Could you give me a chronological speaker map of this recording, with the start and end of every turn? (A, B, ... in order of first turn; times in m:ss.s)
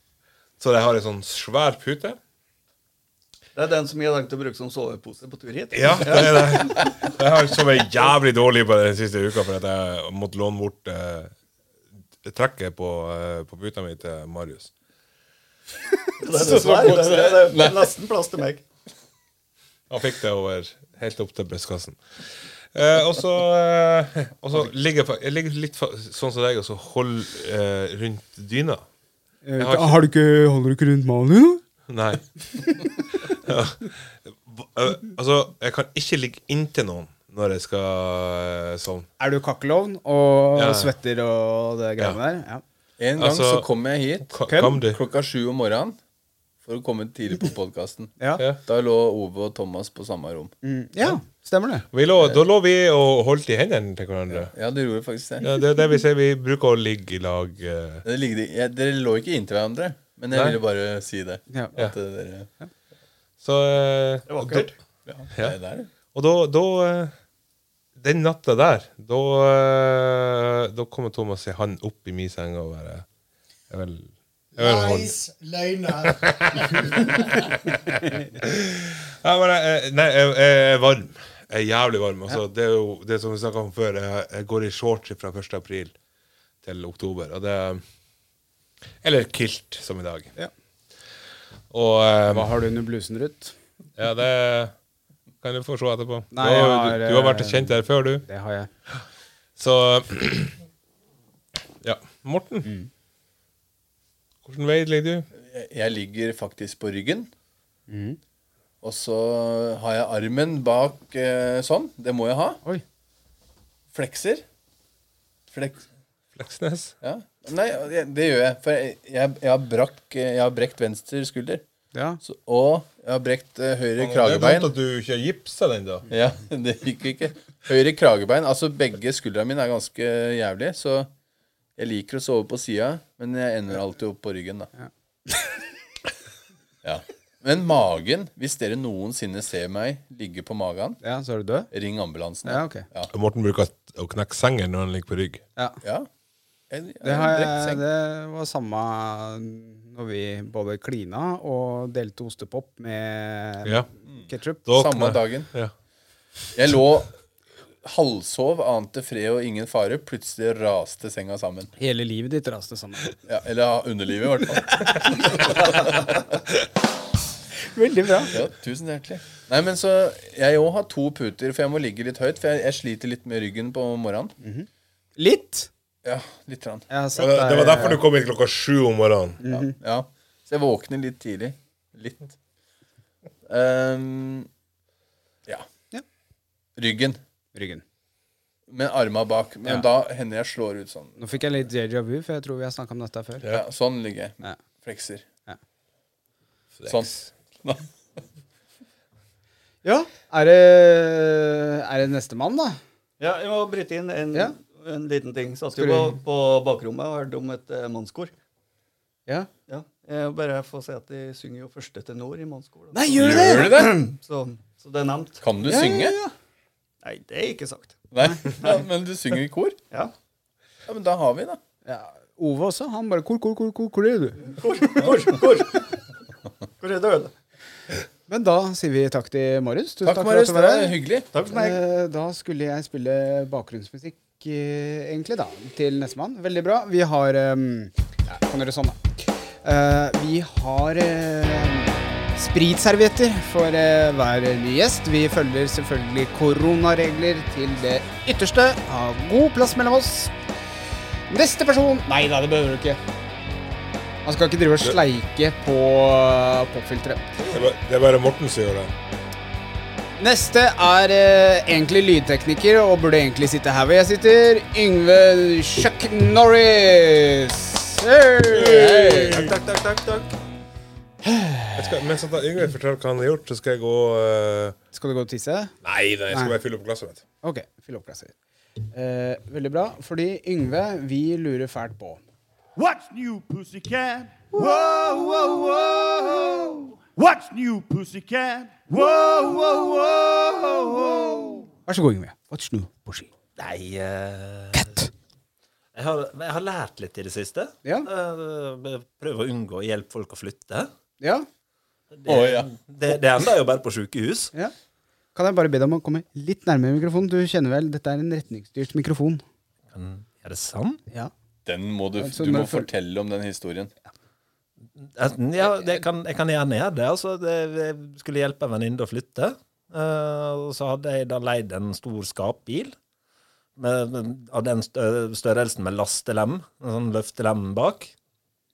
0:00.6-0:02.2 A
0:03.6-0:06.8 B
0:05.7-0:11.3 A
0:12.2-0:14.7 A
0:16.2-0:18.6 B
0:16.3-0:17.2 C
0:16.5-0:17.9 D
0:19.9-0:22.0 A
0:22.7-0:28.8 A
0:29.4-0:31.6 C
0:29.6-0:30.0 A
0:31.9-0:39.1 A
0:39.2-0:42.6 C
0:40.6-0:40.9 A
0:43.0-0:46.0 D
0:43.2-0:43.7 A
0:44.3-0:45.0 A
0:44.5-0:44.8 C
0:46.6-0:50.5 D
0:50.6-0:51.9 C
0:51.9-0:54.5 A
0:54.3-0:55.5 D
0:55.4-0:58.0 A
0:58.0-1:02.5 D
1:03.4-1:04.7 A
1:04.3-1:04.7 B
1:05.1-1:05.9 D
1:06.1-1:07.1 A
1:08.0-1:13.0 A
1:13.7-1:15.2 A
1:14.6-1:16.9 E
1:16.0-1:25.9 A
1:26.6-1:27.8 A
1:29.0-1:30.3 A
1:31.7-1:32.5 A
1:32.3-1:33.6 C
1:34.0-1:34.7 A
1:35.4-1:38.2 A
1:36.3-1:38.7 C
1:39.6-1:40.6 A
1:41.8-1:42.7 A
1:44.4-1:45.3 A
1:45.4-1:47.3 D
1:47.9-1:48.2 C
1:48.8-1:52.6 D
1:53.9-1:54.4 D
1:55.5-1:55.8 D
1:56.4-1:56.9 A
1:57.0-2:01.6 D
2:01.9-2:02.2 C
2:02.2-2:04.7 D
2:04.0-2:06.1 A
2:06.1-2:11.1 D
2:11.8-2:14.7 D
2:14.8-2:15.6 C
2:16.8-2:21.0 D
2:21.0-2:21.7 C
2:21.7-2:23.1 D
2:22.4-2:22.8 C
2:23.1-2:25.4 A
2:25.6-2:25.8 C
2:25.8-2:26.1 D
2:26.7-2:27.8 D
2:27.0-2:34.6 C
2:34.1-2:35.5 D
2:34.7-2:35.7 A
2:36.6-2:37.1 D
2:37.8-2:41.7 D
2:41.8-2:43.1 C
2:43.3-2:46.3 D
2:44.7-2:45.2 C
2:47.6-2:48.3 C
2:48.3-2:54.3 D
2:54.4-2:55.7 C
2:56.0-2:56.9 D
2:56.9-2:58.0 C
2:57.2-2:59.4 A
2:59.4-2:59.8 C
2:59.7-3:02.3 D
3:03.5-3:04.5 D
3:06.8-3:07.2 D
3:07.6-3:07.8 C
3:08.7-3:11.2 D
3:11.2-3:13.4 C
3:13.4-3:15.2 D
3:16.8-3:17.2 A
3:16.9-3:17.8 D
3:19.8-3:22.8 C
3:23.2-3:28.3 B
3:25.8-3:26.2 C
3:29.7-3:35.4 B
3:32.9-3:33.9 C
3:33.2-3:34.0 D
3:35.4-3:36.2 D
3:35.6-3:36.3 C
3:37.0-3:38.0 B
3:38.1-3:39.8 D
3:40.9-3:41.6 D
3:41.9-3:45.0 C
3:44.5-3:45.8 B
3:46.8-3:47.3 B
3:48.3-3:51.0 C
3:50.0-3:51.3 D
3:51.3-3:51.8 B
3:51.5-4:10.3 C
4:11.3-4:13.0 C
4:14.2-4:17.4 C
4:17.4-4:18.9 A
4:20.2-4:29.5 C
4:28.5-4:29.8 A
4:29.6-4:30.3 F
4:31.2-4:31.8 C
4:31.8-4:34.8 A
4:34.9-4:35.7 C
4:35.8-4:37.2 A
4:37.4-4:38.3 C
4:38.9-4:42.2 C
4:42.8-4:51.6 G
4:51.9-4:53.3 C
4:53.6-4:55.0 F
4:54.7-4:55.1 C
4:55.9-5:00.9 F
4:57.8-4:58.1 C
5:01.2-5:01.5 C
5:02.1-5:04.5 F
5:02.3-5:02.7 D
5:05.3-5:09.4 C
5:09.9-5:11.0 F
5:11.6-5:13.9 D
5:12.2-5:12.9 C
5:15.0-5:23.0 F
5:23.8-5:28.1 F